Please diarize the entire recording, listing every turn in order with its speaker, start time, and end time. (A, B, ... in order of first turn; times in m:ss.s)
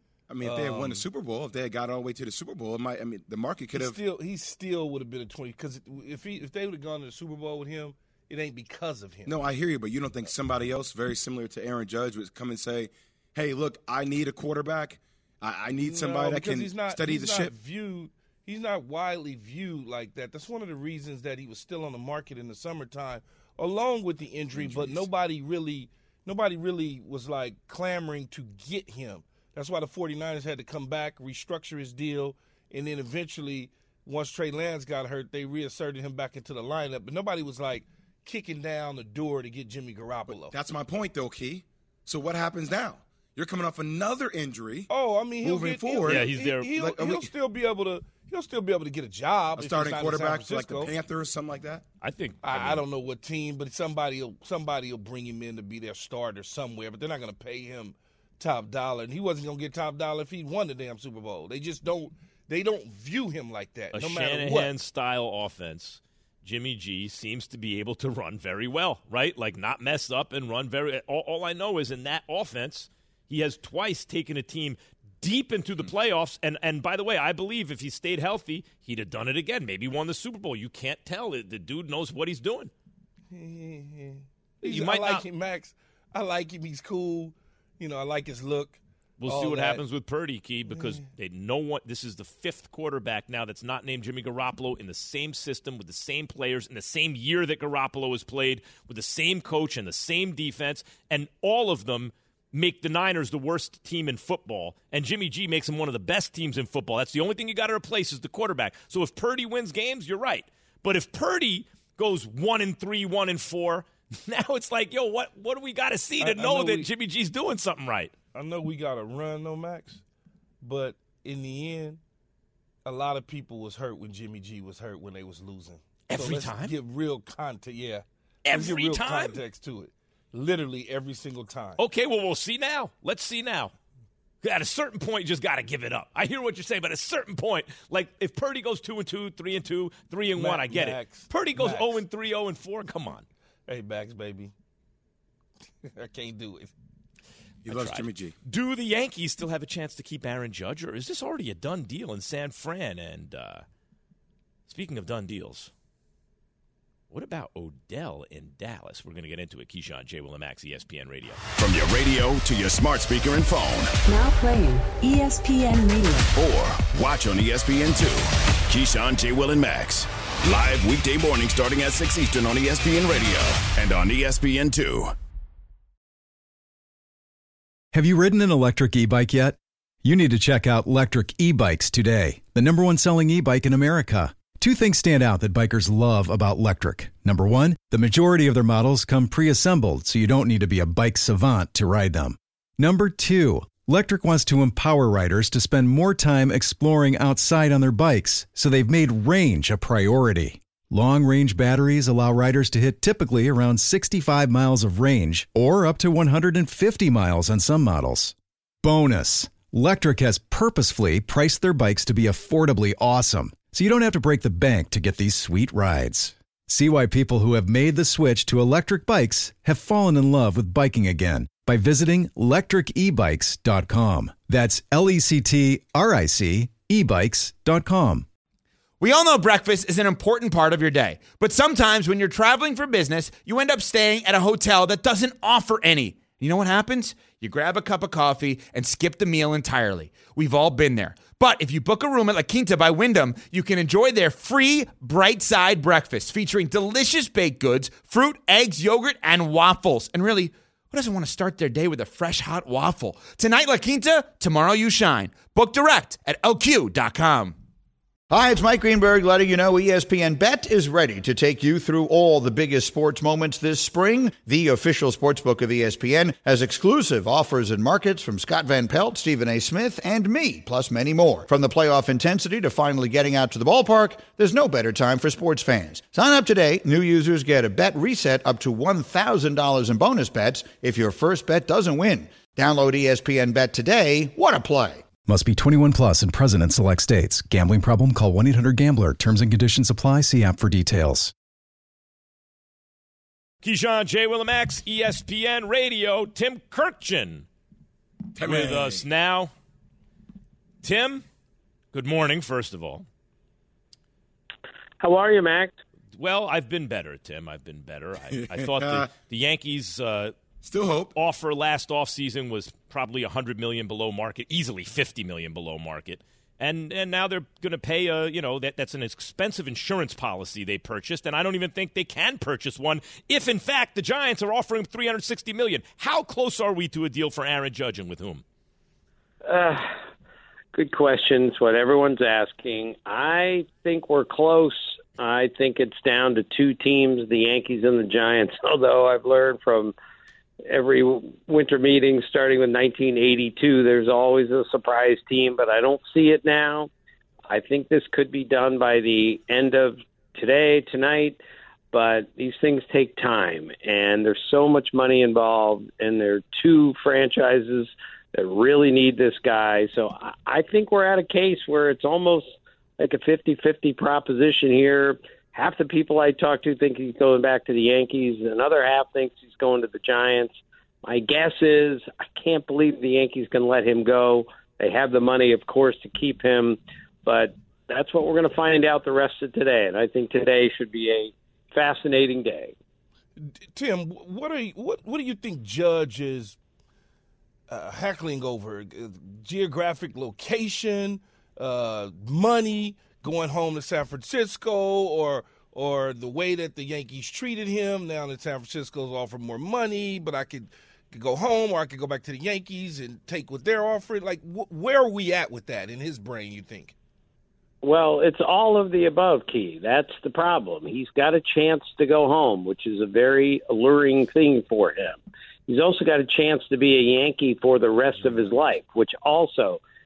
0:00.3-0:04.0 A
0:00.4-0:01.0 B
0:03.7-0:09.4 B
0:09.3-0:17.5 A
0:15.8-0:40.5 B
0:24.5-0:25.1 A
0:40.3-0:44.9 A
0:44.9-0:50.9 B
0:45.4-0:47.3 A
0:46.1-0:46.7 C
0:49.6-0:51.8 A
0:52.0-0:52.8 C
0:52.4-1:04.7 B
1:03.9-1:22.7 C
1:23.3-1:29.8 B
1:24.6-1:25.2 C
1:29.2-1:58.1 C
1:30.7-1:31.0 B
1:56.2-1:56.9 B
1:58.3-2:00.0 B
2:00.6-2:02.0 B
2:02.8-2:11.8 B
2:06.1-2:06.7 C
2:08.4-2:09.4 C
2:11.8-2:13.7 C
2:14.4-2:23.2 C
2:20.4-2:22.0 B
2:23.7-2:24.5 B
2:25.9-2:26.7 B
2:27.6-2:28.4 A
2:27.7-2:33.6 C
2:34.7-2:35.7 C
2:37.1-2:41.4 C
2:41.6-2:43.9 D
2:44.1-2:46.3 E
2:46.4-2:55.2 D
2:57.9-3:48.3 F
3:49.0-4:17.6 G
4:18.3-4:45.0 H
4:45.2-4:51.3 F
4:53.6-4:57.5 C
4:58.4-4:59.0 A
4:58.4-4:59.5 C
5:00.8-5:01.2 C
5:01.9-5:03.1 C
5:05.0-5:05.8 I
5:06.1-5:10.4 C
5:08.4-5:09.1 A
5:10.6-5:11.2 A
5:11.1-5:28.4 C
5:29.4-5:29.9 I
5:30.7-5:39.9 I
5:40.7-5:46.9 I
5:47.5-5:51.4 I
5:51.9-6:22.7 I
6:23.4-6:26.6 B
6:27.7-6:47.0 B
6:47.8-6:59.8 I